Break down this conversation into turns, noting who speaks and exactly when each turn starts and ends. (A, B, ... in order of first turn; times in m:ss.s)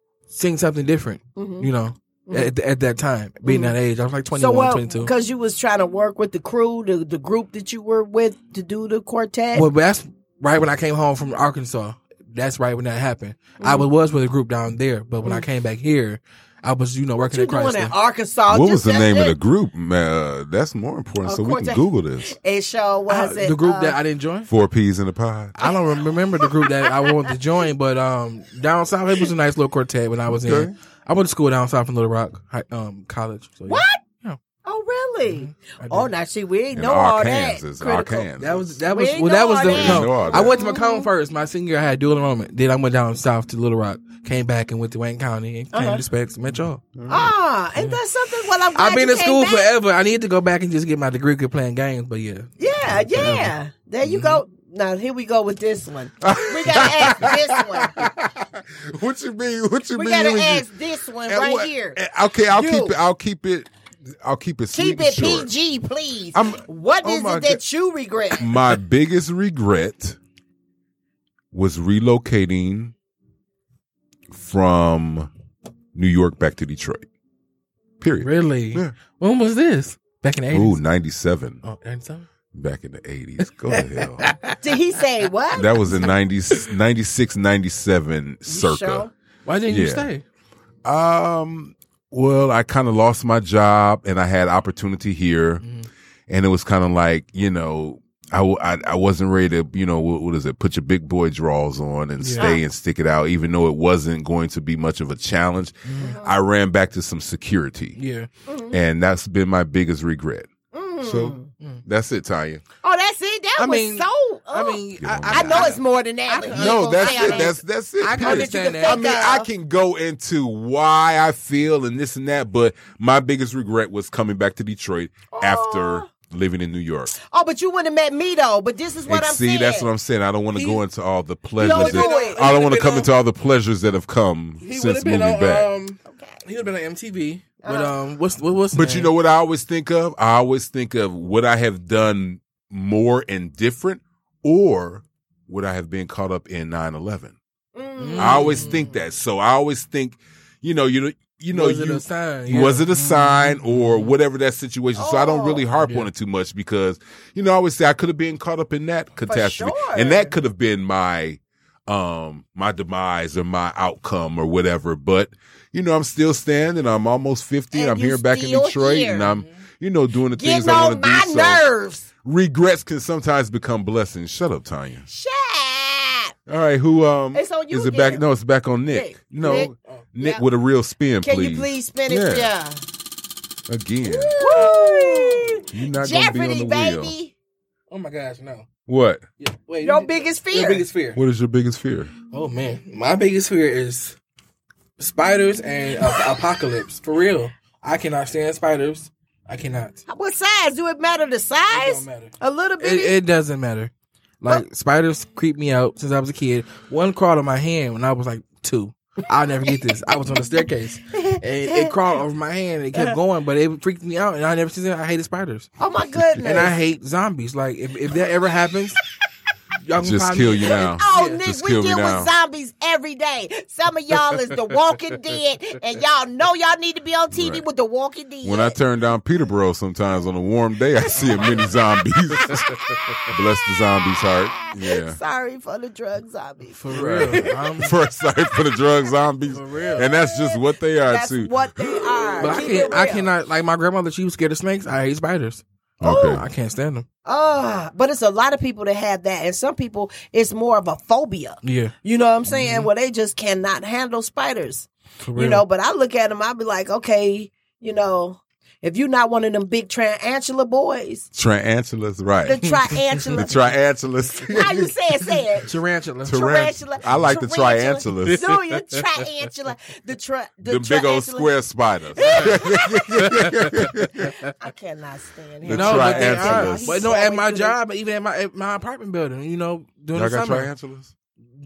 0:00.3-0:05.1 A
0:01.4-0:01.7 B
0:03.4-0:03.8 B
0:04.3-0:09.7 B
0:09.5-0:18.0 A
0:13.6-0:13.9 B
0:17.2-0:19.4 B
0:18.5-0:22.4 C
0:21.2-0:24.0 B
0:23.1-0:24.5 A
0:24.5-0:25.6 C
0:25.6-0:34.4 A
0:26.4-0:27.2 B
0:30.4-0:30.7 C
0:33.7-0:34.0 B
0:34.6-0:38.3 B
0:35.3-0:36.1 A
0:36.7-0:38.7 C
0:38.4-0:46.9 A
0:38.8-0:41.1 B
0:39.6-0:40.6 C
0:45.7-0:46.0 B
0:47.0-0:47.3 C
0:47.1-0:49.7 B
0:48.7-0:54.4 A
0:52.6-0:58.0 B
0:56.2-1:00.7 C
1:00.0-1:02.0 B
1:01.2-1:03.7 C
1:02.5-1:03.0 B
1:04.2-1:05.5 C
1:04.7-1:08.6 B
1:06.3-1:07.6 C
1:08.4-1:10.2 C
1:11.5-1:12.9 C
1:14.3-1:15.3 C
1:15.9-1:17.1 C
1:18.0-1:18.9 C
1:18.2-1:20.8 A
1:20.5-1:21.6 C
1:21.6-1:22.3 A
1:22.5-1:24.3 C
1:23.7-1:24.6 A
1:24.6-1:25.9 B
1:25.5-1:29.1 C
1:28.5-1:29.1 B
1:29.5-1:30.2 A
1:29.7-1:30.1 C
1:30.8-1:35.6 C
1:35.6-1:35.9 A
1:36.3-1:48.0 C
1:42.2-1:42.5 A
1:45.8-1:46.2 A
1:46.0-1:46.3 B
1:48.0-1:48.3 A
1:48.5-1:48.8 B
1:48.7-1:50.5 C
1:50.7-1:51.5 B
1:51.0-1:52.6 C
1:52.8-1:57.6 B
1:53.6-1:59.0 A
1:55.0-1:55.8 C
1:56.5-2:07.2 C
1:58.1-1:59.5 B
2:05.3-2:06.1 B
2:07.2-2:09.9 B
2:09.1-2:15.7 C
2:10.6-2:10.8 A
2:11.6-2:12.5 B
2:11.6-2:13.1 A
2:14.6-2:19.1 A
2:16.0-2:16.4 B
2:17.6-2:18.0 B
2:18.7-2:27.4 C
2:27.8-2:28.8 B
2:28.0-2:28.8 A
2:28.2-2:51.6 C
2:31.5-2:34.1 A
2:35.0-2:35.6 B
2:35.8-2:36.1 A
2:39.3-2:40.3 B
2:47.7-2:49.4 B
2:49.3-2:49.6 A
2:50.4-2:52.1 B
2:52.2-2:55.1 C
2:55.1-2:56.3 B
2:56.5-3:02.5 C
2:57.3-2:58.2 B
2:58.9-3:00.4 B
2:59.4-3:00.1 A
3:01.2-3:02.8 B
3:03.7-3:04.8 C
3:04.0-3:07.3 B
3:04.4-3:05.1 A
3:05.7-3:07.2 C
3:07.9-3:08.7 A
3:08.9-3:09.2 C
3:09.4-3:11.2 A
3:09.8-3:10.9 B
3:11.1-3:12.1 C
3:12.3-3:14.2 A
3:15.0-3:20.0 A
3:20.1-3:23.2 B
3:21.7-3:23.9 A
3:24.4-3:35.7 A
3:31.1-3:32.0 B
3:35.8-3:36.8 B
3:36.4-3:39.0 A
3:39.8-3:41.4 A
3:40.0-3:42.3 C
3:40.7-3:48.8 B
3:47.3-3:47.6 C
3:48.4-3:52.7 C
3:51.2-3:51.7 B
3:52.4-3:57.7 B
3:53.3-3:55.2 C
3:56.7-3:58.0 A
3:56.9-4:02.8 C
3:59.5-4:00.1 A
4:00.0-4:03.3 B
4:02.4-4:07.1 A
4:06.0-4:06.4 C
4:06.0-4:06.4 B
4:07.3-4:21.3 B
4:11.6-4:11.9 A
4:12.5-4:12.9 A
4:15.2-4:15.6 A
4:21.3-4:22.7 C
4:22.4-4:23.7 B
4:22.6-4:23.4 A
4:23.3-4:25.4 C
4:24.4-4:25.7 B
4:25.7-4:26.4 A
4:26.2-4:28.5 C
4:26.3-4:31.5 B
4:30.6-4:34.3 C
4:32.2-4:37.8 B
4:35.6-4:37.1 C
4:35.7-4:40.7 A
4:40.2-4:41.1 C